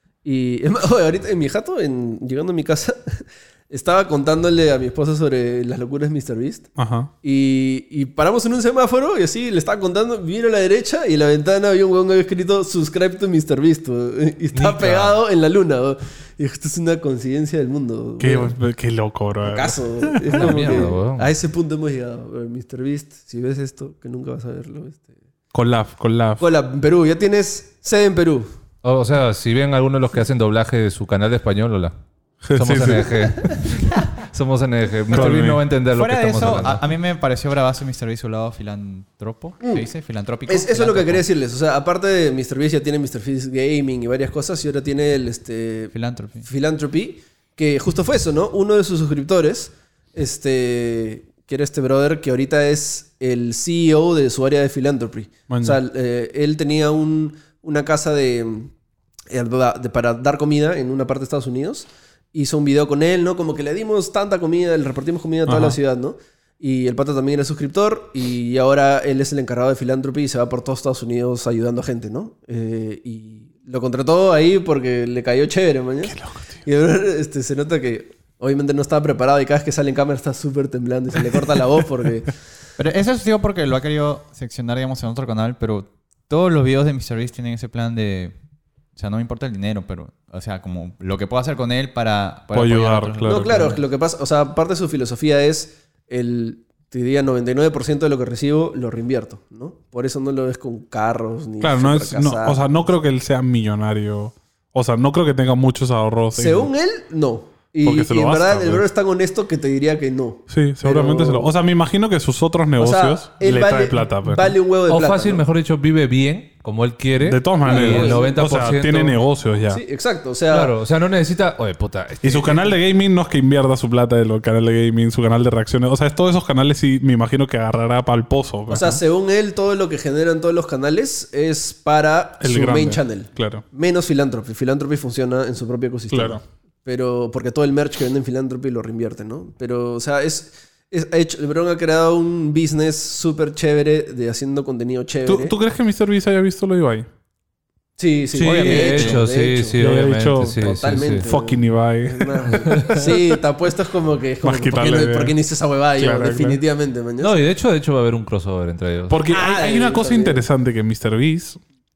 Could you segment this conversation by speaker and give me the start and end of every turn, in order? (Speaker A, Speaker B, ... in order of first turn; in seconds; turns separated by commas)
Speaker A: 0.2-6.7, Speaker B: 6.8-7.1, Speaker A: 7.2-18.5, Speaker C: 14.5-15.2, Speaker B: 18.2-20.9, Speaker A: 19.4-25.1, Speaker C: 20.3-21.3, Speaker B: 25.5-26.4, Speaker A: 26.4-28.5, Speaker C: 28.8-31.9, Speaker B: 32.4-33.3, Speaker C: 32.5-36.8, Speaker B: 35.1-35.6, Speaker D: 35.1-41.2, Speaker A: 39.6-39.9, Speaker A: 40.5-58.7, Speaker D: 45.9-46.5, Speaker B: 55.5-55.8, Speaker A: 59.3-82.3, Speaker B: 65.5-65.8, Speaker B: 76.0-76.5, Speaker D: 82.8-88.3, Speaker D: 89.0-93.8, Speaker B: 92.5-93.6, Speaker A: 93.2-102.7, Speaker B: 101.6-106.7, Speaker A: 106.3-111.5, Speaker B: 107.8-108.8, Speaker B: 110.5-114.5, Speaker A: 112.8-115.4, Speaker C: 114.9-119.2, Speaker B: 117.2-119.8, Speaker A: 117.6-118.3, Speaker A: 119.7-120.7, Speaker C: 120.5-122.8, Speaker B: 122.2-129.0, Speaker A: 128.7-145.6, Speaker B: 132.4-133.6, Speaker B: 136.1-136.4, Speaker B: 145.2-147.1, Speaker A: 148.0-149.8, Speaker C: 148.3-151.3, Speaker D: 148.4-149.2, Speaker B: 149.8-153.2, Speaker A: 150.6-157.3, Speaker B: 154.4-155.3, Speaker B: 156.0-156.6, Speaker C: 157.2-159.2, Speaker B: 159.1-161.6, Speaker A: 159.3-160.4